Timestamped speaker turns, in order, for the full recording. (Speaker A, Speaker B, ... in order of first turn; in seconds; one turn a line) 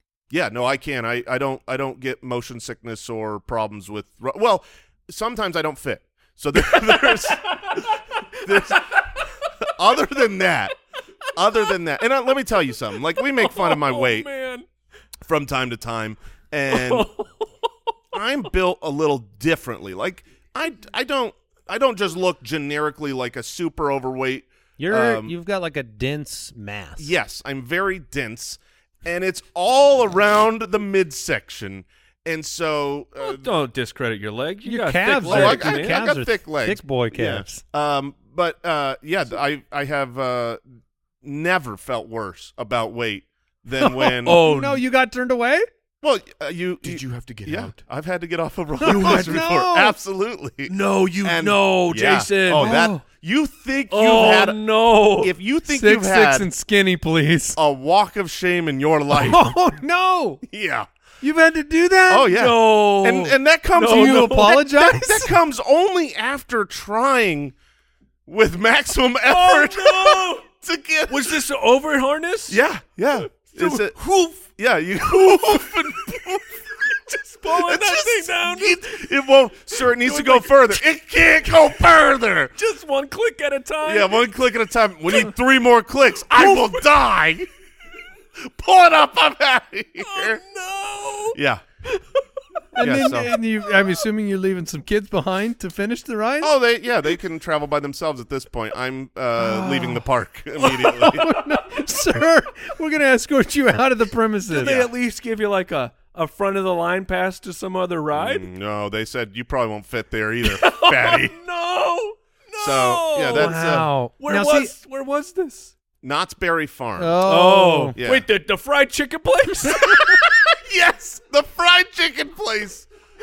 Speaker A: 0.3-9.1
Speaker B: 6.7-7.8
Speaker B: 8.4-9.1
Speaker A: 9.6-10.8
Speaker A: 11.3-14.3
Speaker B: 13.2-14.7
Speaker A: 15.2-17.1
Speaker B: 16.7-17.5
Speaker A: 18.1-25.3
Speaker C: 24.8-27.1
Speaker A: 27.0-33.5
Speaker B: 33.2-36.0
Speaker C: 34.6-37.6
Speaker A: 35.3-40.6
Speaker A: 41.2-44.4
Speaker C: 43.8-45.7
Speaker B: 44.2-44.8
Speaker A: 46.0-54.6
Speaker B: 46.8-47.8
Speaker C: 48.8-50.0
Speaker B: 48.9-49.4
Speaker B: 50.7-52.9
Speaker C: 52.6-53.0
Speaker B: 53.9-55.3
Speaker A: 55.2-56.5
Speaker C: 55.7-57.6
Speaker A: 57.6-59.5
Speaker C: 59.1-60.4
Speaker A: 60.4-60.9
Speaker C: 61.2-62.3
Speaker A: 62.1-67.5
Speaker B: 62.3-64.6
Speaker C: 63.8-65.3
Speaker A: 68.3-71.4
Speaker B: 69.3-70.5
Speaker B: 71.1-72.6
Speaker A: 72.5-76.7
Speaker B: 73.3-74.4
Speaker B: 75.1-76.2
Speaker B: 77.1-79.0
Speaker A: 77.5-82.5
Speaker B: 79.8-80.8
Speaker B: 82.6-84.3
Speaker A: 83.8-87.5
Speaker B: 86.3-86.8
Speaker A: 88.4-90.4
Speaker B: 90.0-91.4
Speaker A: 91.3-91.6
Speaker C: 92.8-96.5
Speaker A: 92.8-93.3
Speaker A: 96.4-101.3
Speaker C: 99.4-100.0
Speaker C: 101.0-104.9
Speaker B: 104.5-108.5
Speaker A: 108.1-111.3
Speaker B: 110.4-115.7
Speaker A: 112.6-113.9
Speaker C: 113.3-114.7
Speaker A: 116.0-117.2
Speaker C: 117.0-118.0
Speaker B: 117.2-120.2
Speaker A: 118.0-118.2
Speaker A: 119.8-122.9